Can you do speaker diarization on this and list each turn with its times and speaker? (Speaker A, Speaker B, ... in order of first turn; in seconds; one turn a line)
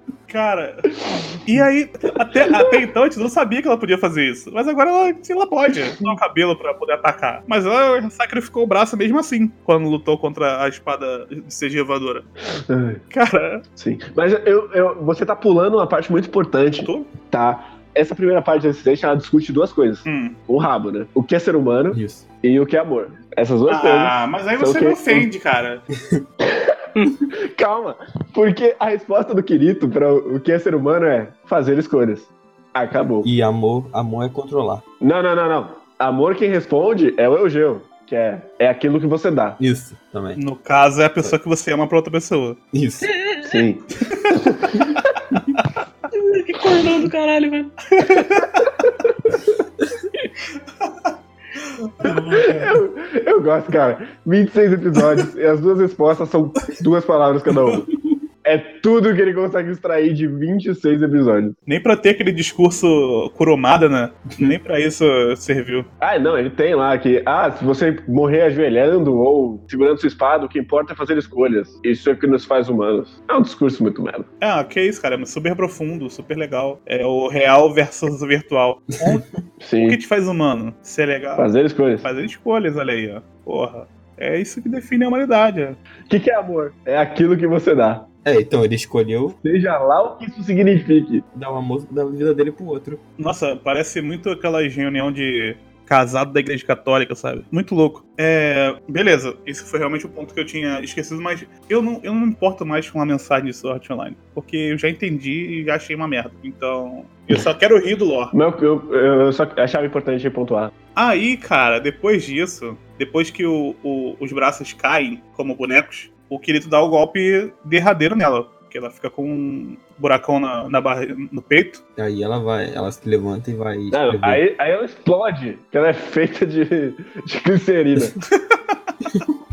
Speaker A: 0.3-12.3
Speaker B: 2.5-2.7
Speaker B: 12.6-13.0
Speaker A: 13.1-13.6
Speaker B: 13.8-25.3
Speaker A: 16.8-17.1
Speaker A: 20.1-20.4
Speaker C: 21.9-22.2
Speaker A: 23.7-25.9
Speaker B: 26.5-33.3
Speaker C: 33.2-34.8
Speaker B: 35.0-39.6
Speaker C: 39.6-40.4
Speaker A: 40.4-42.6
Speaker C: 42.7-43.1
Speaker D: 43.0-43.6
Speaker B: 43.4-45.0
Speaker D: 46.1-47.7
Speaker A: 48.0-48.7
Speaker A: 50.8-52.8
Speaker B: 52.0-57.9
Speaker B: 58.4-61.6
Speaker A: 61.7-65.9
Speaker B: 66.0-74.3
Speaker A: 74.4-79.3
Speaker B: 79.6-80.0
Speaker A: 79.8-81.5
Speaker B: 81.4-82.1
Speaker A: 82.0-85.8
Speaker B: 86.1-88.1
Speaker C: 88.2-89.4
Speaker B: 89.4-91.2
Speaker C: 91.3-93.0
Speaker A: 93.2-108.3
Speaker B: 108.3-110.7
Speaker A: 111.0-121.8
Speaker C: 122.0-124.4
Speaker B: 123.9-128.2